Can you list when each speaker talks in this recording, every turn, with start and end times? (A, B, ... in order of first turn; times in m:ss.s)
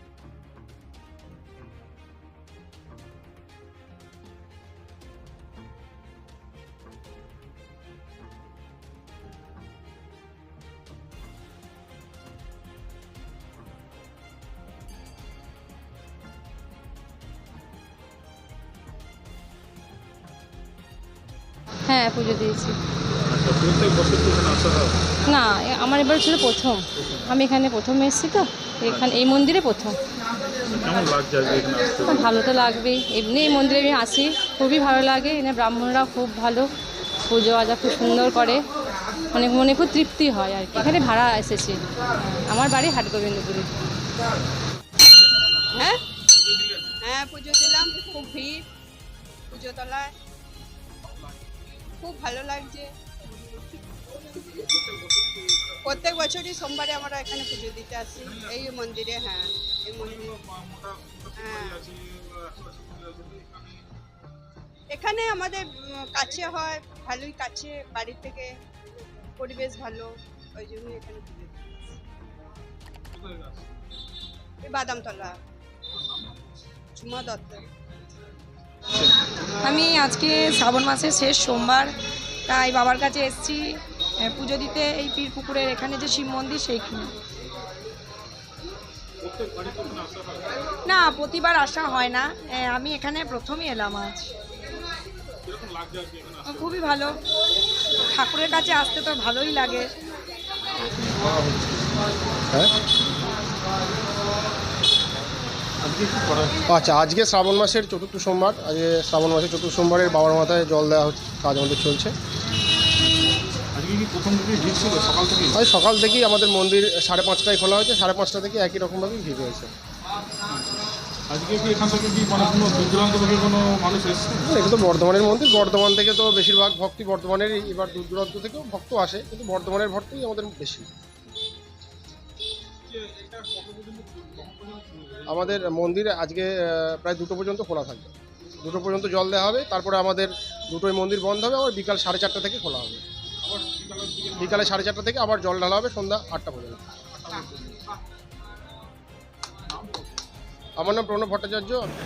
0:21.9-0:22.8 A
0:23.3-0:25.0 B
0:25.3-0:30.0 A
0:30.7-0:32.3 B
0:32.1-0:36.7 A
0:37.3-0:38.6 A
0:39.3-0:43.7 A
0:45.7-0:46.0 C
0:46.5-0:46.9 B
0:47.0-0:48.7 C
0:49.5-0:50.1 C
0:51.1-0:51.5 B
0:52.0-0:54.2 C
0:54.2-0:56.3 B
0:55.8-1:00.2 C
0:58.2-0:58.7 B
1:00.0-1:03.8 B
1:01.4-1:01.8 C
1:04.9-1:08.5 C
1:09.4-1:12.0 C
1:13.1-1:13.8 B
1:14.6-1:15.4 C
1:15.9-1:16.5 B
1:17.0-1:17.7 C
1:19.6-1:21.9 D
1:22.5-1:27.1 D
1:29.2-1:30.6 B
1:30.9-1:34.3 D
1:35.5-1:36.9 B
1:36.4-1:37.2 D
1:38.1-1:39.9 D
1:40.8-1:41.6 B
1:45.8-1:46.6 B
1:46.7-1:52.1 E
1:53.7-1:55.6 B
1:55.5-1:59.7 E
2:01.3-2:04.4 B
2:04.4-2:10.9 E
2:12.9-2:15.7 B
2:15.3-2:23.0 E
2:23.4-2:24.7 B
2:24.4-2:26.8 E
2:27.1-2:27.8 B
2:29.7-2:30.2 B
2:30.8-2:31.9 E